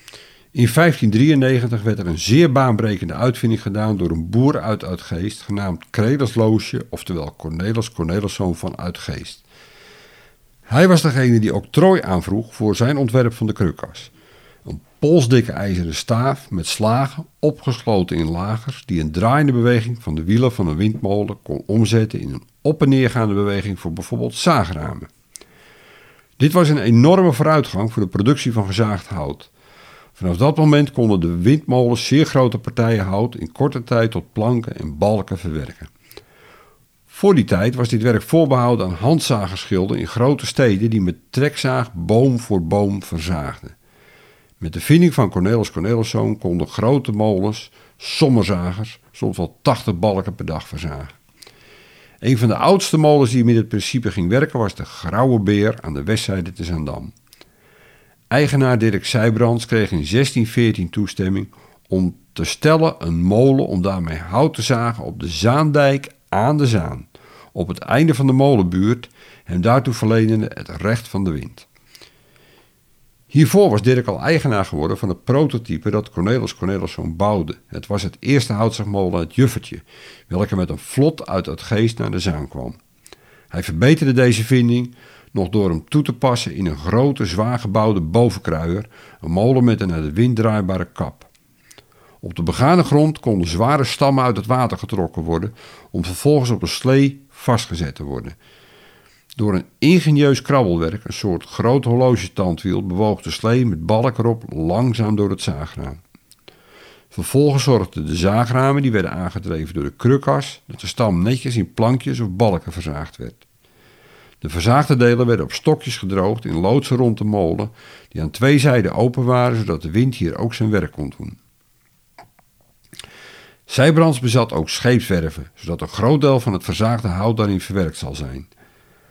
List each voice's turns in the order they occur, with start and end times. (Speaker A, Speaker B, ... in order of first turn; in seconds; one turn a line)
Speaker A: 0.5-9.4
Speaker A: 10.7-14.1
Speaker A: 14.7-25.1
Speaker A: 26.4-29.5
Speaker A: 30.1-35.9
Speaker A: 37.1-43.8
Speaker A: 44.6-51.1
Speaker A: 52.2-57.1
Speaker A: 58.3-71.7
Speaker A: 73.3-82.8
Speaker A: 83.5-91.3
Speaker A: 92.2-98.4
Speaker A: 99.4-106.0
Speaker A: 107.1-113.5
Speaker A: 114.4-121.4
Speaker A: 123.7-128.5